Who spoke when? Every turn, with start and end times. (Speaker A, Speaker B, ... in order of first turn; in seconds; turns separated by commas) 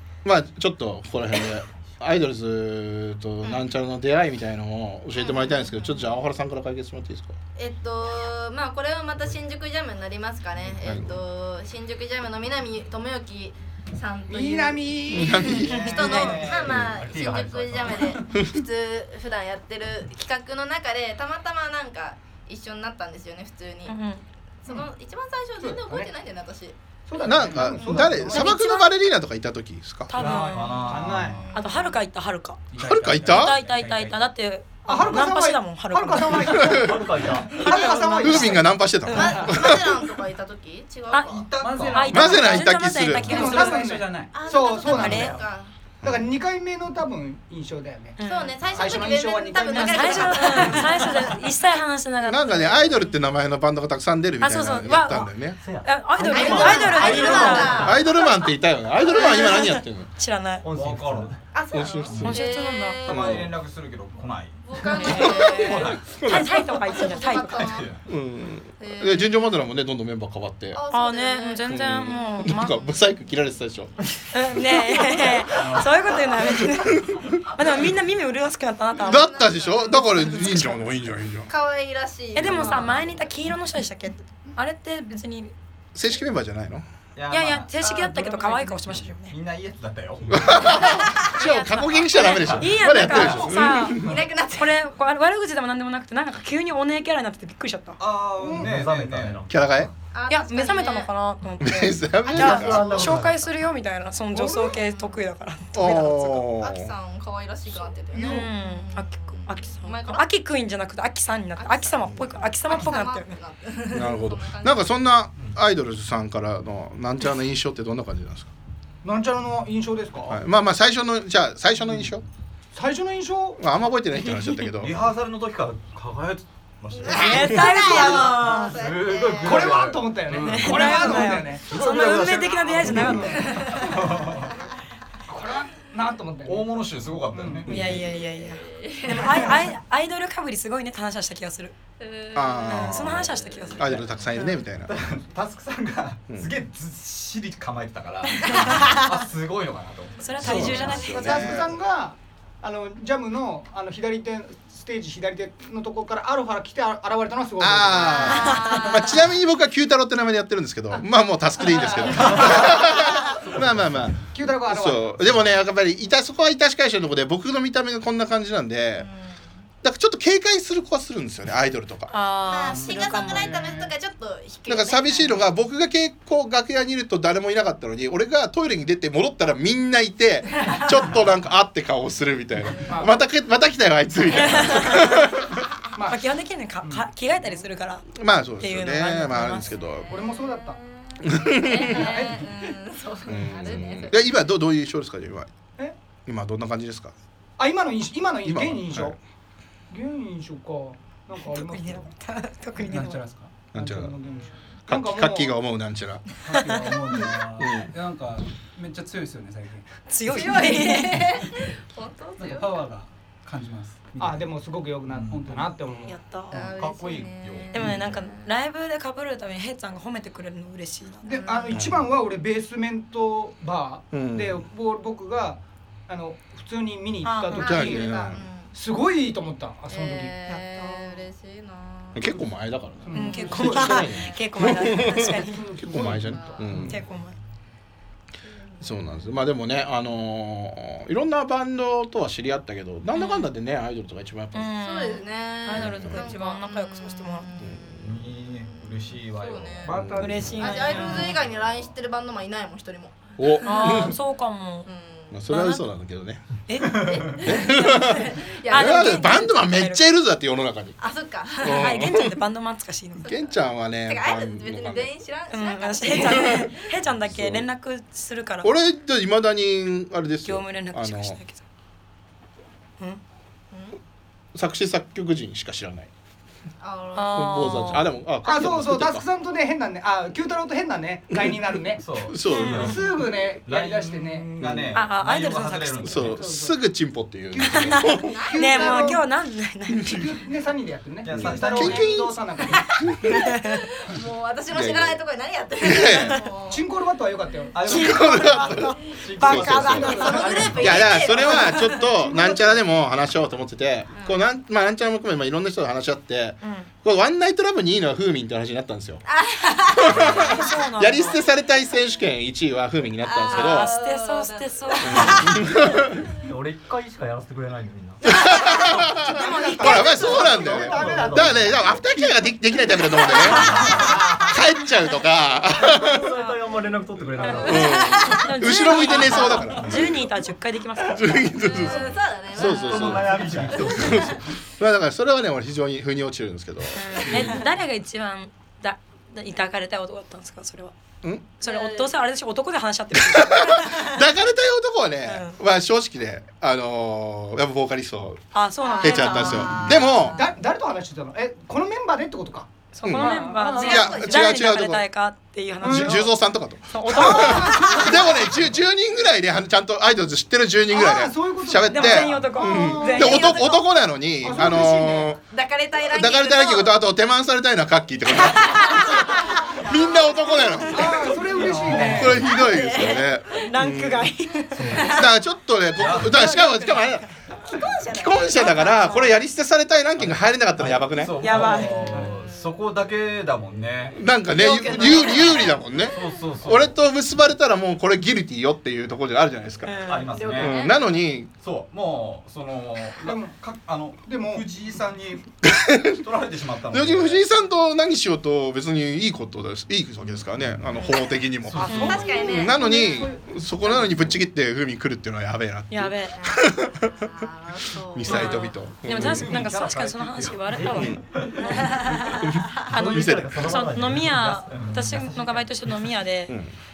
Speaker A: 0.2-7.4, Speaker B: 5.2-5.9, Speaker B: 7.6-23.9, Speaker C: 14.3-15.5, Speaker A: 15.1-15.9, Speaker D: 15.5-17.3, Speaker E: 15.7-16.4, Speaker A: 16.7-16.9, Speaker F: 16.7-18.0, Speaker A: 18.3-18.6, Speaker E: 23.9-24.2, Speaker B: 24.6-26.8, Speaker C: 25.6-26.1, Speaker C: 27.1-28.6, Speaker A: 27.2-30.2, Speaker B: 27.8-28.1, Speaker E: 28.3-28.9, Speaker E: 30.1-32.6, Speaker D: 30.1-31.4, Speaker C: 30.9-31.4, Speaker B: 31.1-32.0, Speaker D: 32.7-34.1, Speaker G: 32.8-34.1, Speaker A: 32.8-33.6, Speaker E: 33.3-36.7, Speaker C: 34.9-38.7, Speaker D: 35.0-35.3, Speaker F: 36.7-37.7, Speaker E: 37.6-39.5, Speaker A: 37.7-40.0, Speaker B: 39.1-41.5, Speaker D: 41.3-42.3, Speaker G: 41.6-42.6, Speaker E: 41.9-43.9, Speaker A: 42.1-43.5, Speaker C: 43.3-45.4, Speaker G: 43.3-44.3, Speaker B: 44.3-45.7, Speaker E: 44.9-45.4, Speaker A: 46.0-46.3, Speaker C: 46.0-51.2, Speaker E: 48.2-48.6, Speaker B: 48.2-51.4, Speaker E: 49.6-53.1, Speaker A: 52.2-55.6, Speaker E: 54.4-55.3, Speaker F: 55.6-58.0, Speaker E: 55.8-58.3, Speaker B: 56.2-58.2, Speaker A: 57.8-60.1, Speaker E: 59.0-60.6, Speaker F: 60.6-61.4, Speaker D: 60.7-61.4, Speaker B: 61.5-63.5, Speaker A: 61.7-62.4, Speaker D: 62.1-62.4, Speaker E: 62.2-63.0, Speaker D: 63.0-66.2, Speaker A: 63.1-63.5, Speaker B: 64.6-67.9, Speaker E: 65.0-67.7, Speaker A: 66.2-66.5, Speaker D: 67.0-68.0, Speaker A: 68.1-70.8, Speaker B: 68.8-69.5, Speaker B: 70.7-72.7, Speaker E: 70.9-72.8, Speaker A: 71.7-74.0, Speaker E: 74.3-79.3, Speaker D: 75.5-76.2, Speaker B: 78.9-80.7, Speaker A: 79.0-81.5, Speaker E: 79.9-80.8, Speaker B: 81.5-83.3, Speaker E: 82.3-85.5, Speaker A: 82.4-82.8, Speaker A: 86.0-86.9, Speaker D: 87.2-88.1, Speaker E: 87.3-89.3, Speaker D: 88.7-90.8, Speaker A: 90.3-94.2, Speaker E: 90.6-94.0, Speaker B: 90.9-91.2, Speaker D: 92.3-93.5, Speaker B: 93.9-94.8, Speaker E: 94.6-98.0, Speaker D: 98.0-99.5, Speaker C: 98.4-98.7, Speaker F: 98.6-99.9, Speaker A: 99.5-99.9, Speaker B: 100.1-101.1, Speaker E: 100.3-106.4, Speaker A: 101.6-103.0, Speaker F: 102.2-103.5, Speaker C: 104.3-104.8, Speaker B: 104.7-105.2, Speaker A: 105.7-106.9, Speaker B: 106.4-110.3, Speaker E: 107.7-113.3, Speaker C: 108.1-108.5, Speaker B: 111.6-115.0, Speaker A: 112.1-112.4, Speaker A: 113.9-118.5, Speaker C: 119.0-120.4, Speaker A: 120.3-122.2, Speaker C: 122.7-123.6, Speaker A: 123.6-125.0, Speaker E: 124.3-124.7, Speaker D: 124.8-134.5, Speaker B: 127.0-129.9, Speaker E: 127.1-128.8, Speaker C: 129.4-131.7, Speaker E: 130.5-133.5, Speaker C: 132.9-133.4, Speaker B: 133.1-134.5, Speaker C: 135.3-136.8, Speaker D: 136.4-138.0, Speaker C: 137.3-137.7, Speaker A: 137.7-138.0, Speaker E: 137.7-141.7, Speaker B: 138.0-139.6, Speaker C: 139.1-139.6, Speaker B: 142.0-144.0, Speaker A: 142.3-144.9, Speaker E: 142.7-144.5, Speaker D: 144.8-151.6, Speaker B: 148.5-148.8, Speaker E: 148.5-149.0, Speaker E: 150.2-151.4, Speaker A: 150.4-151.7, Speaker C: 150.5-158.7, Speaker A: 157.6-169.1, Speaker B: 158.0-159.2, Speaker E: 158.2-159.0, Speaker C: 161.6-162.6, Speaker D: 163.5-163.8, Speaker C: 164.2-165.3, Speaker B: 169.0-169.4, Speaker A: 169.8-172.1, Speaker E: 172.1-173.8, Speaker B: 172.5-175.5, Speaker D: 172.7-173.8, Speaker A: 174.7-185.6, Speaker C: 182.9-183.2, Speaker E: 184.3-185.3, Speaker C: 185.9-186.2, Speaker E: 186.1-188.1, Speaker A: 188.1-190.1, Speaker E: 188.6-189.7, Speaker B: 189.5-194.2, Speaker C: 190.1-190.8, Speaker A: 191.2-192.0, Speaker E: 191.9-192.3, Speaker C: 192.0-192.4, Speaker A: 193.3-195.5, Speaker A: 196.3-197.2, Speaker C: 197.6-199.2, Speaker A: 198.4-199.2, Speaker C: 199.9-202.1, Speaker E: 201.4-203.2, Speaker G: 202.8-203.6, Speaker A: 203.7-204.2, Speaker C: 203.7-205.6, Speaker B: 204.2-204.7, Speaker A: 204.9-206.3, Speaker G: 206.4-209.9, Speaker A: 207.6-207.9, Speaker E: 210.1-211.3, Speaker B: 210.3-212.8, Speaker G: 212.4-214.4, Speaker C: 214.2-216.7, Speaker E: 216.1-216.6, Speaker B: 216.5-218.5, Speaker D: 216.6-218.0, Speaker E: 217.7-221.4, Speaker C: 221.2-230.3, Speaker B: 221.3-221.8, Speaker A: 221.7-222.1, Speaker A: 224.1-224.6, Speaker E: 227.2-228.0, Speaker B: 227.5-228.7, Speaker A: 227.6-228.4, Speaker B: 229.9-232.4, Speaker E: 230.5-231.3, Speaker A: 232.2-237.0, Speaker C: 233.0-234.1, Speaker E: 233.1-235.6, Speaker B: 233.9-234.4, Speaker C: 235.1-237.0, Speaker B: 236.0-236.6, Speaker E: 236.7-237.4, Speaker B: 238.5-239.2, Speaker A: 238.8-244.7, Speaker E: 243.1-243.5, Speaker E: 244.5-247.5, Speaker B: 244.8-248.0, Speaker A: 245.8-246.2, Speaker A: 247.6-248.0, Speaker D: 248.0-251.3, Speaker B: 248.6-250.0, Speaker A: 249.9-250.4, Speaker E: 250.1-251.4, Speaker B: 250.6-254.1, Speaker A: 253.4-254.1, Speaker E: 253.6-254.9, Speaker B: 254.9-255.4, Speaker A: 255.3-256.5, Speaker E: 255.5-255.8, Speaker E: 256.7-258.1, Speaker D: 256.8-257.4, Speaker B: 257.1-259.3, Speaker A: 257.4-261.0, Speaker E: 258.7-260.1, Speaker B: 261.0-261.9, Speaker A: 261.6-262.4, Speaker E: 261.6-263.3, Speaker A: 263.2-265.1, Speaker B: 264.0-266.7, Speaker E: 265.5-268.7, Speaker A: 267.2-267.7, Speaker A: 268.6-271.4, Speaker E: 270.4-271.6, Speaker B: 273.7-274.0, Speaker A: 274.5-276.1, Speaker B: 276.8-277.9, Speaker E: 277.1-278.1, Speaker A: 277.3-279.2, Speaker C: 278.4-282.1, Speaker A: 281.3-281.6, Speaker D: 282.0-286.4, Speaker A: 282.3-283.1, Speaker E: 282.4-283.0, Speaker C: 282.8-284.7, Speaker A: 284.6-285.0, Speaker E: 284.9-286.2, Speaker A: 286.0-288.3, Speaker C: 286.2-286.8, Speaker C: 287.5-289.2, Speaker E: 287.9-290.2, Speaker B: 288.2-289.1, Speaker C: 290.1-293.1, Speaker D: 291.2-292.3, Speaker A: 291.3-292.3, Speaker B: 293.0-296.9, Speaker E: 293.2-293.8, Speaker A: 294.7-295.2, Speaker A: 295.8-296.4, Speaker C: 296.7-297.8, Speaker D: 297.7-301.3, Speaker E: 297.9-300.7, Speaker A: 297.9-300.1, Speaker B: 300.1-301.9, Speaker A: 300.7-309.2, Speaker C: 301.4-302.8, Speaker E: 301.7-302.0, Speaker B: 304.1-304.4, Speaker E: 306.6-306.9, Speaker B: 309.3-310.7, Speaker A: 310.0-313.9, Speaker E: 310.4-311.4, Speaker B: 313.2-315.9, Speaker E: 313.5-315.6, Speaker A: 315.0-316.2, Speaker F: 316.4-318.5, Speaker B: 318.3-318.8, Speaker A: 318.3-326.3, Speaker E: 319.2-320.7, Speaker C: 319.3-322.0, Speaker F: 320.4-324.2, Speaker B: 323.2-324.5, Speaker E: 323.7-324.0, Speaker E: 325.8-326.6, Speaker F: 325.9-328.3, Speaker E: 327.4-332.1, Speaker A: 327.6-329.9, Speaker B: 327.7-329.6, Speaker A: 331.1-337.6, Speaker B: 331.7-334.4, Speaker E: 332.6-333.1, Speaker F: 332.9-334.3, Speaker D: 333.0-334.3, Speaker E: 336.9-340.9, Speaker B: 337.2-337.6, Speaker E: 341.6-344.2, Speaker B: 341.6-342.1, Speaker A: 343.2-348.4, Speaker E: 345.3-345.6, Speaker E: 348.5-349.9, Speaker B: 348.8-350.3, Speaker A: 349.0-350.4, Speaker C: 350.2-354.2, Speaker E: 352.9-356.3, Speaker A: 353.0-355.0, Speaker B: 353.7-354.7, Speaker C: 355.8-356.2, Speaker A: 355.8-365.4, Speaker E: 356.9-358.2, Speaker C: 357.1-358.5, Speaker C: 360.9-363.5, Speaker E: 361.9-363.6, Speaker B: 363.1-363.9, Speaker C: 364.4-365.4, Speaker B: 365.5-367.0, Speaker A: 366.0-371.4, Speaker B: 368.3-371.4, Speaker C: 370.9-372.5, Speaker F: 371.5-372.5, Speaker D: 371.9-372.2, Speaker A: 372.0-374.3, Speaker B: 372.3-373.7, Speaker E: 373.6-375.1, Speaker F: 374.7-375.2, Speaker B: 374.9-375.3, Speaker A: 375.1-377.2, Speaker D: 376.0-376.4, Speaker C: 376.3-377.1, Speaker E: 376.4-377.1, Speaker E: 377.6-379.4, Speaker B: 378.1-378.8, Speaker A: 378.1-381.5, Speaker D: 380.2-384.2, Speaker E: 381.4-382.2, Speaker G: 381.6-382.4, Speaker B: 382.3-382.8, Speaker A: 384.1-390.0, Speaker E: 384.6-385.7, Speaker B: 384.9-386.0, Speaker D: 386.1-387.0, Speaker E: 389.8-390.6, Speaker D: 390.0-390.9, Speaker B: 390.3-391.0, Speaker A: 390.5-391.5, Speaker D: 391.6-395.5, Speaker C: 393.2-393.6, Speaker C: 394.2-394.7, Speaker A: 395.6-396.2, Speaker D: 396.2-397.5, Speaker A: 396.9-407.4, Speaker D: 401.7-402.2, Speaker E: 401.8-402.4, Speaker C: 401.9-404.2, Speaker B: 401.9-403.3, Speaker E: 405.9-406.3, Speaker B: 406.4-408.8, Speaker A: 408.1-409.5, Speaker E: 408.3-416.6, Speaker D: 409.1-411.8, Speaker F: 410.7-411.9, Speaker A: 410.9-411.2, Speaker A: 412.4-413.6, Speaker F: 412.8-415.7, Speaker D: 414.7-415.2